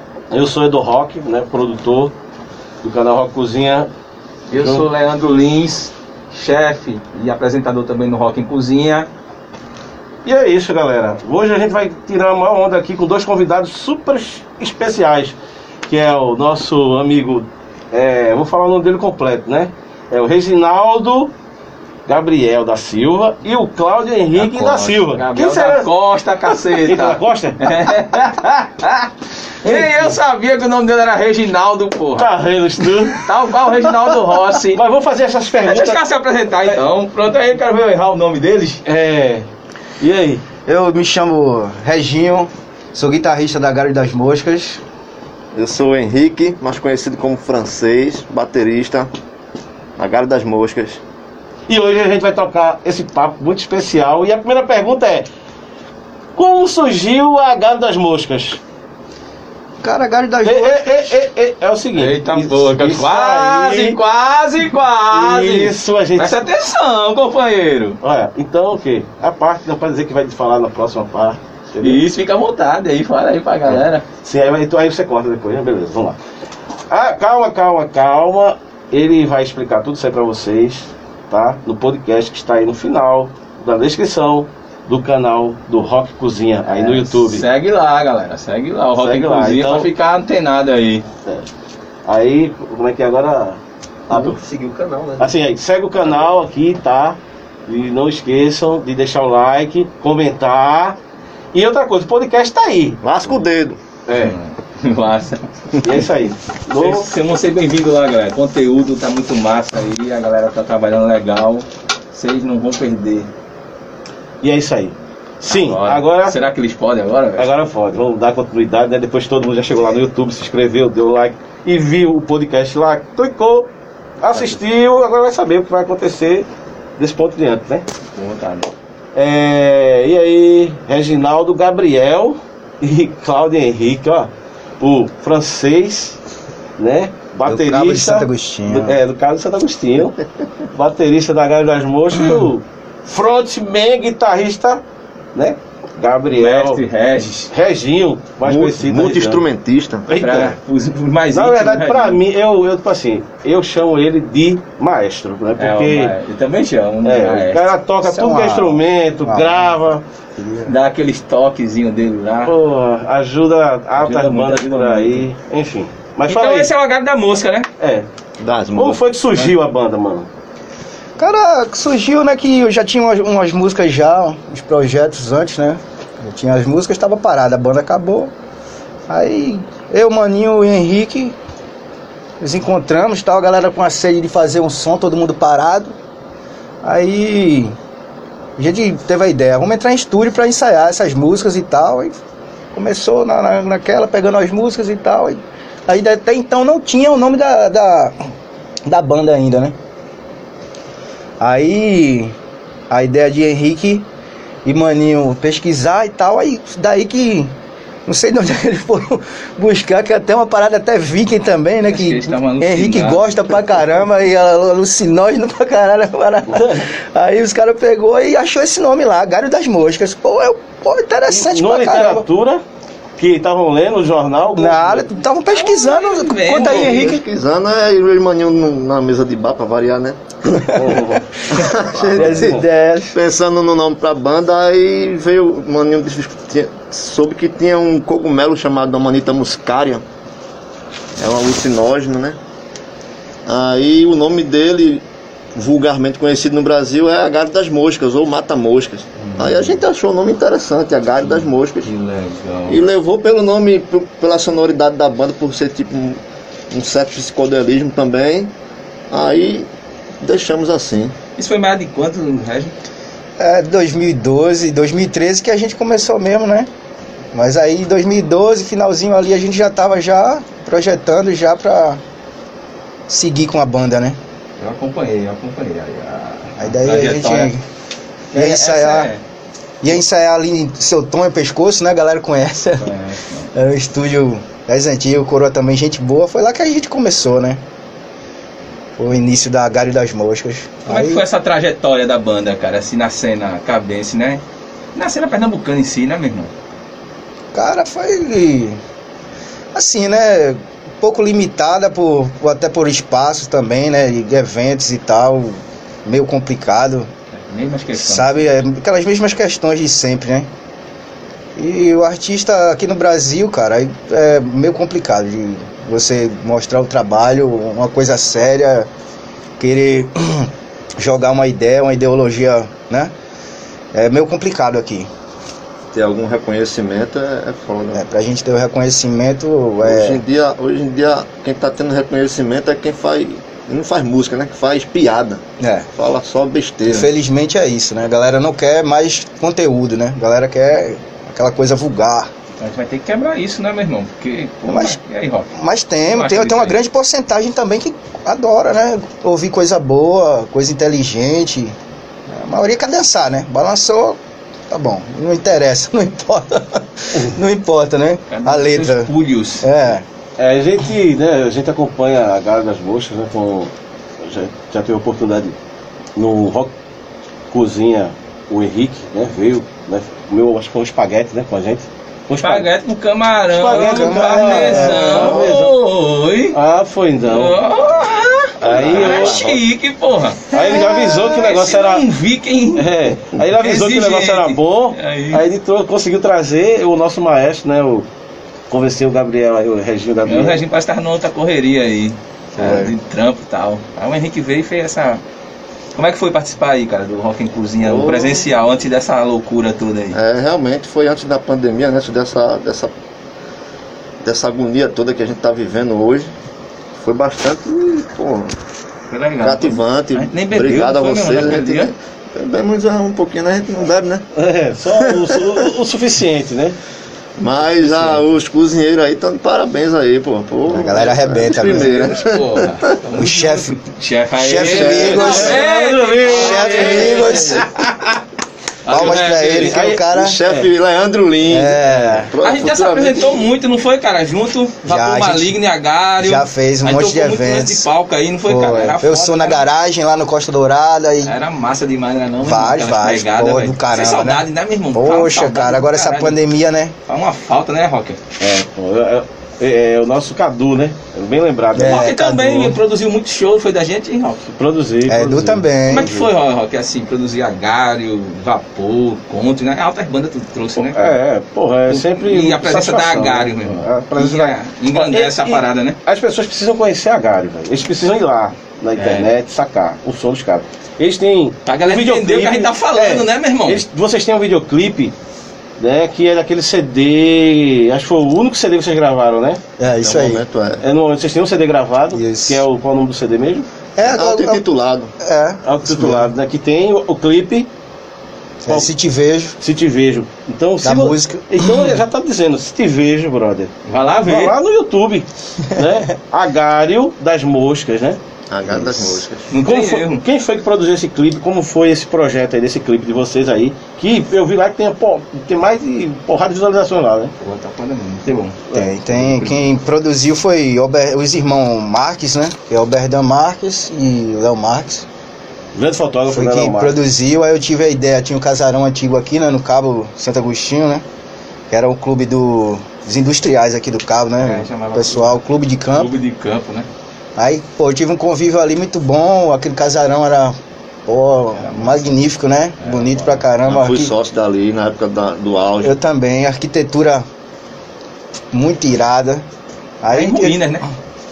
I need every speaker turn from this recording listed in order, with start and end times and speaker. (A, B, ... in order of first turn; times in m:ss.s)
0:00.3-0:02.2 A
0:02.8-0:03.9 A
0:04.5-0:09.1 B
0:04.5-0:04.9 A
0:10.2-0:15.4 A
0:15.9-0:21.3 A
0:22.1-0:25.9 A
0:24.4-0:29.1 B
0:26.7-0:28.0 A
0:29.6-0:34.8 B
0:29.6-0:30.2 A
0:32.2-0:33.3 A
0:34.7-0:36.0 A
0:35.6-0:38.8 B
0:38.9-0:39.5 A
0:40.0-0:40.4 A
0:40.7-0:44.8 C
0:45.6-0:49.1 D
0:50.0-0:51.0 D
0:51.7-0:55.3 A
0:56.4-0:58.6 A
0:59.8-1:01.1 C
1:00.4-1:04.0 A
1:02.0-1:08.0 B
1:05.1-1:06.5 A
1:08.0-1:12.0 A
1:11.8-1:14.0 B
1:13.7-1:16.2 A
1:16.9-1:27.5 A
1:26.7-1:31.1 B
1:29.0-1:29.9 A
1:32.1-1:34.4 A
1:34.2-1:35.3 B
1:35.2-1:41.0 A
1:41.5-1:43.0 A
1:43.0-1:43.8 D
1:44.1-1:44.4 A
1:44.2-1:46.0 B
1:45.8-1:47.1 A
1:46.8-1:53.3 B
1:54.4-1:56.4 A
1:55.5-1:57.6 B
1:57.4-2:03.7 A
2:04.2-2:07.8 A
2:08.2-2:08.7 B
2:09.2-2:16.2 A
2:16.8-2:20.2 A
2:17.4-2:19.0 C
2:20.7-2:24.8 A
2:25.4-2:26.8 A
2:26.3-2:27.5 B
2:27.5-2:29.4 A
2:28.4-2:30.1 D
2:30.1-2:30.6 A
2:30.1-2:32.2 B
2:31.3-2:36.2 A
2:35.6-2:37.8 B
2:37.0-2:40.0 A
2:38.0-2:39.8 C
2:40.4-2:40.7 C
2:40.6-2:42.5 B
2:42.4-2:46.7 A
2:44.0-2:45.3 B
2:46.3-2:47.7 B
2:47.8-2:48.1 A
2:48.4-2:49.0 D
2:48.8-2:50.3 A
2:51.2-2:58.3 C
2:59.1-3:01.4 C
3:02.4-3:06.0 C
3:06.8-3:07.7 C
3:08.6-3:12.2 C
3:12.7-3:18.2 C
3:18.9-3:19.8 C
3:21.4-3:22.3 C
3:22.9-3:24.0 C
3:24.6-3:27.5 C
3:28.1-3:42.3 C
3:31.8-3:33.6 B
3:36.5-3:36.9 A
3:41.3-3:42.6 A
3:43.2-3:45.1 A
3:44.5-3:47.2 C
3:45.5-3:47.1 B
3:46.6-3:50.8 D
3:50.7-3:51.0 C
3:50.7-3:51.4 A
3:51.5-4:00.0 D
3:51.6-3:53.2 C
3:52.1-3:52.6 A
4:01.2-4:02.4 D
4:03.5-4:05.0 D
4:05.6-4:11.9 D
4:09.2-4:09.8 B
4:11.2-4:12.8 B
4:12.7-4:16.2 D
4:16.7-4:18.5 D
4:19.1-4:19.7 D
4:20.2-4:21.2 D
4:21.4-4:22.8 B
4:23.4-4:26.7 C
4:27.3-4:32.0 C
4:33.1-4:34.2 C
4:34.6-4:37.5 B
4:36.6-4:37.6 C
4:38.3-4:39.2 B
4:38.3-4:39.1 C
4:39.8-4:42.9 C
4:42.8-4:43.5 B
4:43.5-4:47.6 C
4:49.0-4:51.2 C
4:50.9-4:54.4 B
4:55.0-4:56.5 B
4:57.5-4:58.8 C
4:59.7-5:07.1 C
5:07.3-5:08.5 B
5:07.9-5:10.5 C
5:11.6-5:18.9 C
5:19.6-5:23.1 C
5:23.9-5:25.1 C
5:25.9-5:28.0 D
5:28.0-5:30.2 C
5:29.8-5:35.4 D
5:35.6-5:35.9 C
5:36.0-5:37.1 D
5:36.9-5:42.3 C
5:42.6-5:45.5 B
5:44.7-5:45.0 C
5:45.5-5:51.8 C
5:46.1-5:46.8 B
5:52.3-6:00.0 C
5:58.3-5:59.8 B
6:00.4-6:05.6 A
6:06.2-6:06.7 A
6:07.5-6:12.7 A
6:12.4-6:16.6 B
6:13.5-6:15.8 A
6:13.7-6:15.3 C
6:15.1-6:15.5 D
6:16.5-6:17.6 A
6:17.3-6:22.9 B
6:18.6-6:19.4 A
6:18.6-6:19.6 D
6:20.5-6:22.0 A
6:22.8-6:28.1 A
6:23.6-6:25.4 B
6:28.7-6:30.6 A
6:30.3-6:35.2 B
6:32.6-6:32.9 C
6:36.0-6:40.2 B
6:37.8-6:38.5 D
6:40.1-6:42.9 D
6:44.2-6:46.3 D
6:47.0-6:48.6 D
6:49.1-6:51.9 B
6:49.4-6:54.2 D
6:54.3-6:56.8 A
6:55.0-6:55.5 D
6:57.4-7:02.9 D
6:57.7-6:58.2 A
7:00.7-7:02.1 C
7:01.7-7:07.7 B
7:03.2-7:03.8 C
7:04.4-7:05.7 C
7:04.6-7:05.5 D
7:04.9-7:08.2 A
7:06.2-7:07.7 C
7:08.8-7:09.8 B
7:08.9-7:10.4 C
7:09.2-7:10.7 A
7:10.0-7:13.5 D
7:11.5-7:12.3 C
7:12.4-7:19.7 B
7:14.9-7:15.6 C
7:16.2-7:17.9 C
7:18.5-7:21.4 C
7:21.2-7:26.4 B
7:22.4-7:26.9 C
7:27.1-7:28.2 B
7:28.4-7:32.1 A
7:31.7-7:32.8 C
7:31.8-7:34.4 B
7:34.5-7:36.3 A
7:35.1-7:36.1 C
7:35.9-7:41.1 B
7:40.8-7:55.1 A
7:41.9-7:46.0 B
7:49.0-7:49.3 B
7:51.7-7:53.8 B
7:55.8-7:59.6 A
7:59.8-8:00.4 C
8:00.0-8:00.8 D
8:00.8-8:03.7 A
8:02.1-8:02.6 C
8:04.0-8:04.6 C
8:04.0-8:05.1 D
8:05.2-8:06.3 C
8:05.6-8:07.7 A
8:08.6-8:09.6 C
8:09.6-8:13.7 A
8:10.8-8:12.0 C
8:13.9-8:14.6 B
8:14.2-8:18.2 A
8:18.5-8:19.5 D
8:18.7-8:19.2 C
8:19.5-8:20.2 B
8:19.6-8:27.3 A
8:27.4-8:29.7 B
8:28.3-8:28.9 A
8:28.7-8:35.1 C
8:35.8-8:37.0 A
8:36.3-8:41.0 C
8:41.7-8:46.1 C
8:44.4-8:45.4 B
8:45.9-8:46.9 B
8:47.4-8:50.6 C
8:51.1-8:54.1 C
8:51.6-8:52.1 B
8:52.8-8:53.5 B
8:53.7-8:56.0 D
8:55.8-8:57.2 C
8:58.5-8:59.4 C
9:00.0-9:00.8 C
9:00.1-9:00.8 B